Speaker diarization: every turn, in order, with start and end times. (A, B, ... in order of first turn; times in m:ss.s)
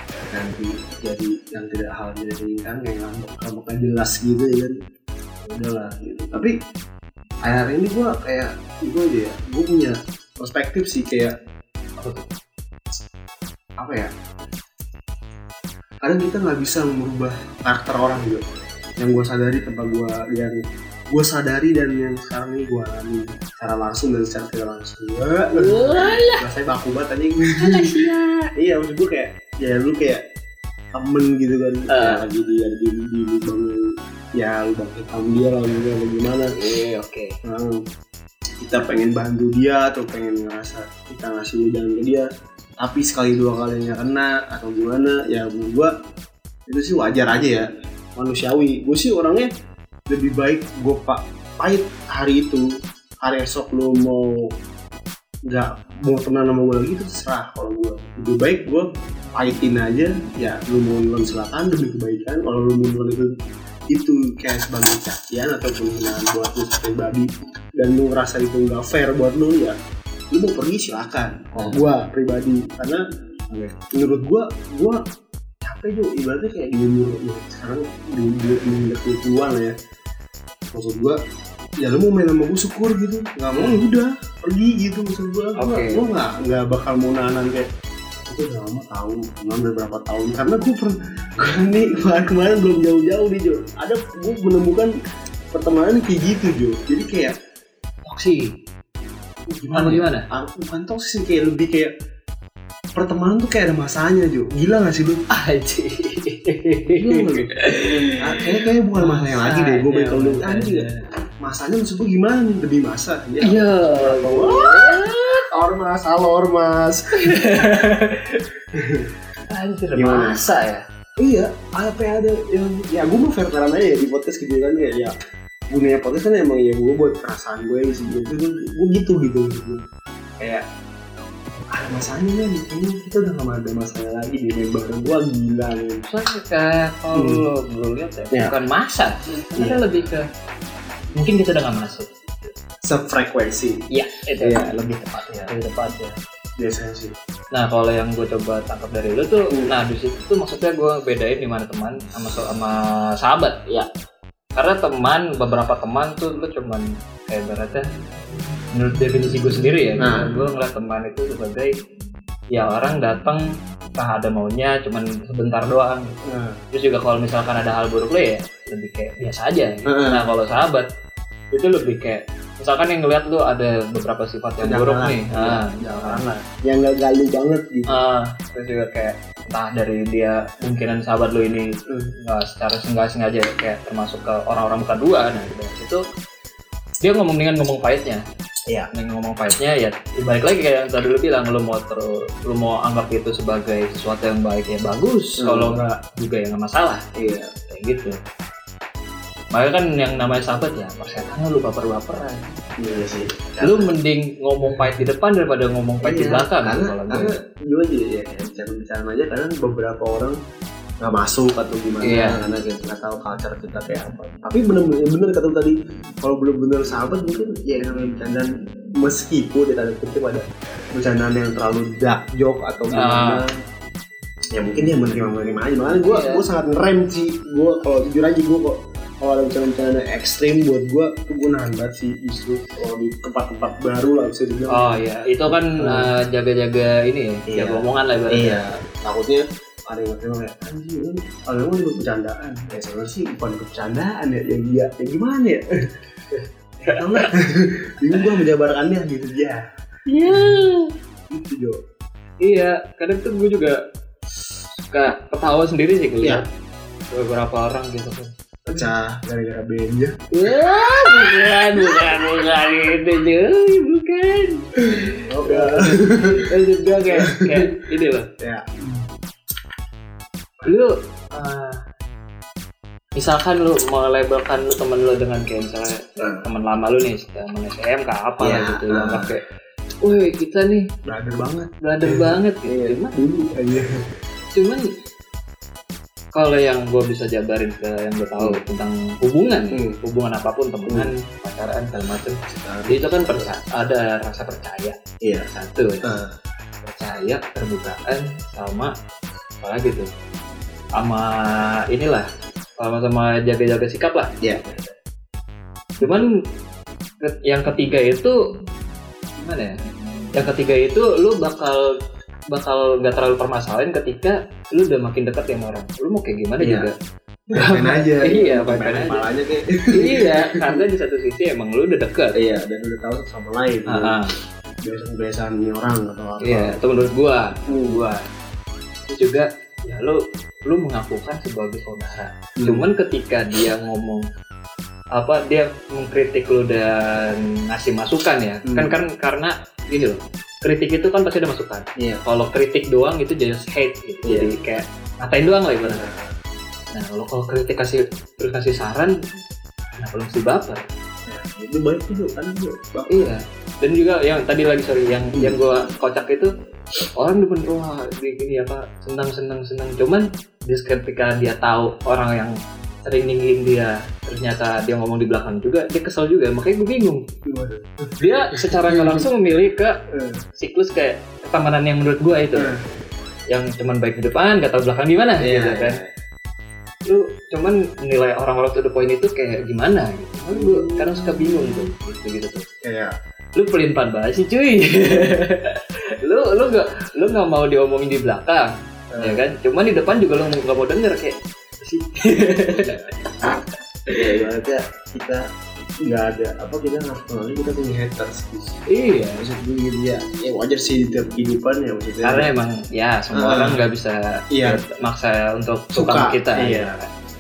0:00.3-0:04.7 A
0:05.4-0:06.5 A
0:07.4-0:11.3 A
0:12.0-0:12.2 B
0:13.8-0:14.1 A
0:16.0-0:20.6 A
0:21.1-0:28.0 A
0:25.5-0:26.4 B
0:27.6-0:28.5 B
0:28.6-0:30.2 A
0:30.9-0:36.5 A
0:31.9-0:32.2 B
0:36.5-0:37.3 B
0:37.4-0:37.8 A
0:38.6-0:42.2 A
0:42.8-0:45.9 A
0:46.7-0:49.5 A
0:50.1-0:52.6 A
0:53.2-0:54.5 A
0:55.5-1:03.3 A
1:03.9-1:09.8 A
1:10.3-1:15.0 A
1:11.6-1:11.8 B
1:15.6-1:19.7 A
1:20.7-1:21.2 A
1:21.8-1:27.7 A
1:23.5-1:23.8 B
1:25.6-1:26.0 B
1:28.2-1:34.9 A
1:35.5-1:37.3 A
1:38.0-1:38.5 B
1:39.5-1:41.9 A
1:39.7-1:40.3 B
1:42.9-1:45.2 A
1:45.3-1:51.0 B
1:46.9-1:47.6 A
1:48.2-1:50.9 A
1:51.4-1:57.4 A
1:53.4-1:55.4 B
1:57.2-1:58.4 B
1:58.7-1:59.1 A
1:59.5-2:00.8 B
2:00.0-2:00.5 A
2:01.2-2:05.1 A
2:05.7-2:09.8 A
2:10.4-2:10.6 A
2:11.7-2:16.0 A
2:16.1-2:20.2 B
2:17.2-2:17.4 A
2:19.6-2:19.9 A
2:21.1-2:22.1 B
2:22.8-2:23.8 A
2:23.9-2:24.6 B
2:24.4-2:27.1 A
2:27.5-2:33.9 B
2:34.6-2:37.8 B
2:38.7-2:41.7 B
2:40.0-2:40.3 A
2:42.5-2:43.4 B
2:44.0-2:46.2 B
2:46.3-2:46.6 A
2:46.7-2:50.9 B
2:49.9-2:50.3 A
2:51.5-2:56.2 B
2:54.6-2:58.0 A
2:57.9-3:06.0 B
3:07.0-3:08.2 B
3:08.9-3:17.0 B
3:15.4-3:15.8 A
3:17.1-3:17.5 A
3:17.7-3:18.2 B
3:19.5-3:22.6 B
3:22.8-3:23.9 A
3:23.6-3:27.3 B
3:26.0-3:30.4 A
3:31.0-3:38.5 A
3:32.0-3:32.4 B
3:39.0-3:43.5 A
3:42.9-3:43.4 B
3:44.5-3:56.1 A
3:46.0-3:46.4 B
3:54.7-3:58.6 B
3:57.5-4:05.6 A
4:06.8-4:09.6 A
4:06.9-4:07.3 B
4:10.1-4:10.9 B
4:10.3-4:10.6 A
4:11.3-4:11.8 A
4:12.4-4:13.8 B
4:14.8-4:16.4 B
4:17.1-4:18.3 B
4:18.7-4:20.2 A
4:20.3-4:28.2 B
4:21.8-4:22.1 A
4:25.0-4:26.5 A
4:27.1-4:27.7 A
4:28.4-4:29.0 A
4:30.6-4:30.9 B
4:31.3-4:31.8 A
4:33.2-4:39.4 B
4:38.4-4:39.3 A
4:40.0-4:40.9 B
4:41.0-4:43.9 A
4:41.8-4:43.1 B
4:44.6-4:44.8 B
4:46.3-4:55.0 B
4:49.7-4:50.0 A
4:50.8-4:51.1 A
4:52.5-4:53.5 A
4:55.2-4:55.5 A
4:55.5-4:56.0 B
4:56.0-4:56.3 A
4:56.8-4:58.9 B
4:59.6-5:00.1 B
5:01.0-5:02.3 B
5:02.8-5:04.9 B
5:06.0-5:06.2 A
5:06.0-5:06.3 B
5:07.2-5:08.4 B
5:09.4-5:09.8 B
5:10.3-5:11.9 B
5:12.5-5:16.9 B
5:16.6-5:16.9 A
5:17.5-5:20.8 A
5:17.5-5:19.2 B
5:19.9-5:22.4 B
5:22.4-5:24.2 A
5:23.9-5:24.3 B
5:24.8-5:26.8 A
5:26.4-5:28.2 B
5:27.7-5:28.0 A
5:29.1-5:34.2 B
5:32.6-5:32.8 A
5:35.2-5:46.0 B
5:38.6-5:39.0 A
5:44.2-5:44.5 A
5:45.8-5:46.3 A
5:46.9-5:49.1 B
5:50.0-5:50.8 B
5:51.3-5:53.3 A
5:53.1-5:56.5 B
5:55.3-5:55.6 A
5:57.2-6:07.2 B
6:07.5-6:09.3 A
6:08.2-6:10.0 B
6:10.1-6:10.4 A
6:10.6-6:12.7 B
6:12.5-6:12.8 A
6:13.5-6:16.0 B
6:15.4-6:16.1 A
6:17.1-6:22.6 B
6:20.5-6:21.9 A
6:22.8-6:23.1 A
6:23.6-6:34.2 B
6:29.1-6:29.4 A
6:32.7-6:33.6 A
6:34.1-6:35.5 A
6:36.0-6:38.8 A
6:38.9-6:39.4 B
6:39.4-6:42.5 A
6:42.2-6:47.1 B
6:43.3-6:43.8 A
6:44.5-6:44.8 A
6:46.0-6:46.9 A